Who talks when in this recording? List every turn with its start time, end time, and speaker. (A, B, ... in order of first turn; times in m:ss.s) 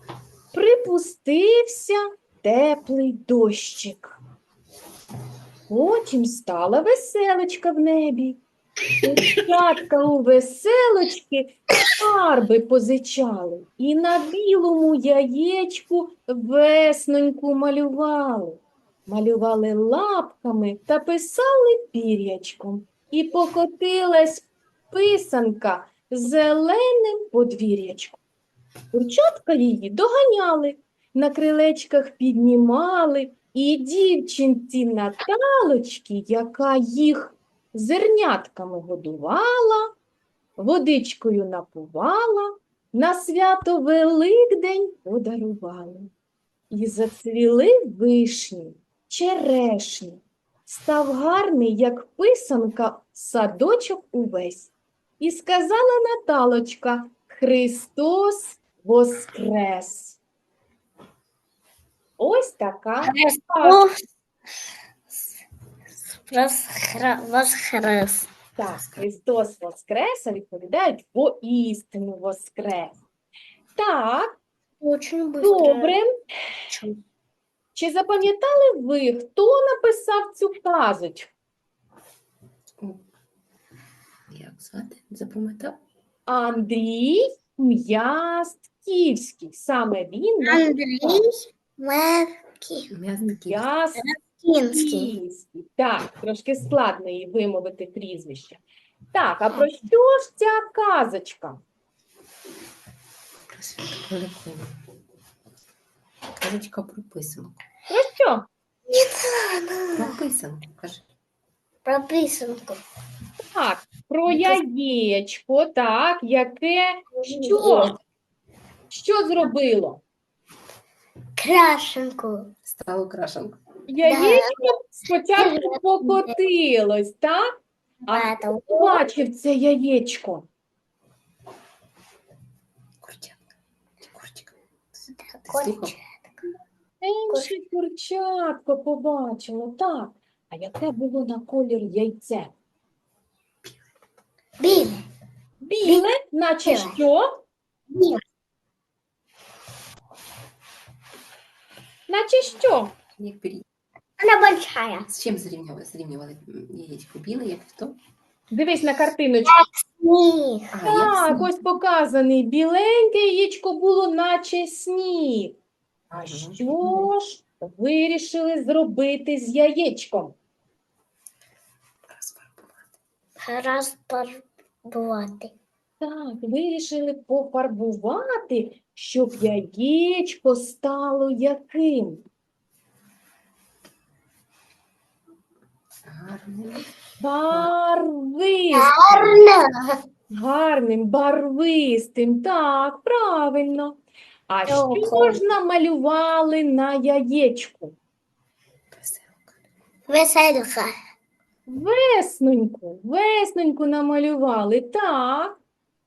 0:00.5-0:04.2 A
0:05.7-0:08.4 A
0:09.0-0:28.2 A
0:28.9-0:39.9 A
0:40.6-0:46.1 A
0:46.7-1:00.2 A
1:02.2-1:03.9 A
1:03.0-1:04.0 B
1:06.3-1:08.3 B
1:08.6-1:13.0 A
1:08.7-1:09.0 C
1:13.8-1:14.4 A
1:14.8-1:16.0 B
1:15.4-1:16.1 A
1:16.7-1:17.0 B
1:17.8-1:21.3 A
1:24.3-1:25.8 C
1:26.3-1:31.3 A
1:30.4-1:32.9 B
1:32.9-1:33.7 C
1:33.2-1:34.1 A
1:34.0-1:35.1 B
1:34.7-1:38.6 A
1:39.1-1:41.6 A
1:43.5-1:44.8 C
1:46.4-1:47.6 C
1:47.9-1:48.5 A
1:48.9-1:50.2 B
1:50.0-1:51.0 C
1:51.8-1:52.8 B
1:53.4-1:58.0 A
1:54.3-1:54.6 C
1:57.2-1:58.0 B
1:58.9-2:00.0 A
2:01.4-2:02.5 B
2:02.7-2:03.6 C
2:03.9-2:07.5 A
2:04.0-2:04.7 B
2:05.3-2:06.3 B
2:08.1-2:09.0 B
2:08.1-2:10.5 A
2:13.0-2:13.4 C
2:14.0-2:16.0 C
2:15.1-2:16.1 B
2:17.0-2:22.5 A
2:24.6-2:25.0 B
2:25.6-2:27.4 A
2:26.7-2:27.0 B
2:27.9-2:28.2 B
2:32.1-2:33.0 A
2:33.2-2:33.6 C
2:34.2-2:35.1 B
2:35.1-2:38.0 C
2:38.5-2:39.5 A
2:39.5-2:41.1 B
2:40.7-2:41.5 C
2:40.9-2:45.6 A
2:46.1-2:47.1 C
2:46.1-2:50.4 A
2:52.0-2:52.8 C
2:53.4-2:55.5 B
2:56.0-3:02.2 A
3:06.0-3:06.9 C
3:07.2-3:09.4 A
3:08.7-3:10.0 B
3:10.3-3:18.0 A
3:14.7-3:15.4 B
3:18.9-3:19.5 C
3:20.1-3:20.9 B
3:21.7-3:25.6 A